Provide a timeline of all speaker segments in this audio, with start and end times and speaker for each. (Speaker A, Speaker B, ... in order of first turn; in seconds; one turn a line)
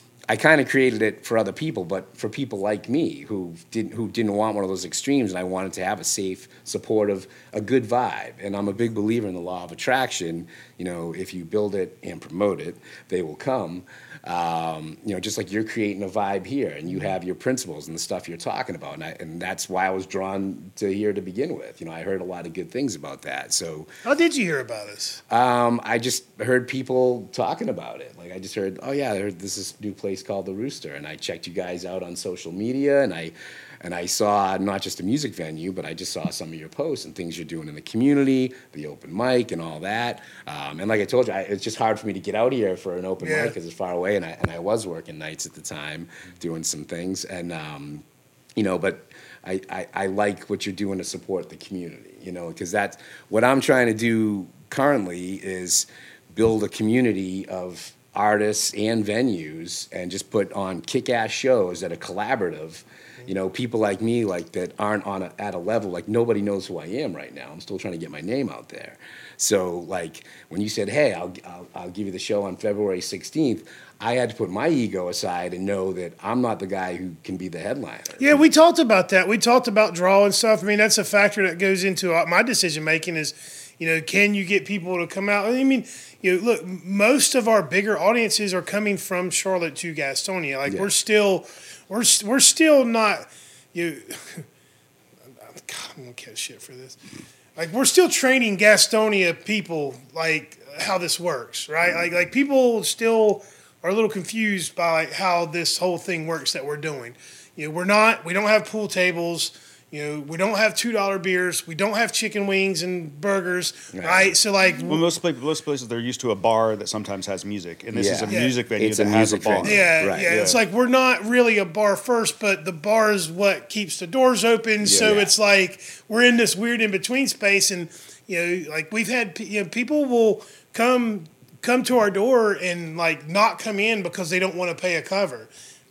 Speaker A: 0.3-23.9
Speaker B: 24.0-25.2
Speaker A: 25.3-48.0
Speaker B: 43.2-43.5
Speaker A: 48.5-78.4
Speaker B: 78.2-94.5
Speaker A: 90.7-90.9
Speaker B: 95.5-97.0
Speaker B: 97.5-115.0
Speaker A: 113.9-114.3
Speaker C: 114.8-120.6
Speaker A: 117.9-120.3
Speaker B: 118.3-118.5
Speaker B: 119.6-135.5
Speaker C: 124.8-125.1
Speaker A: 125.0-125.3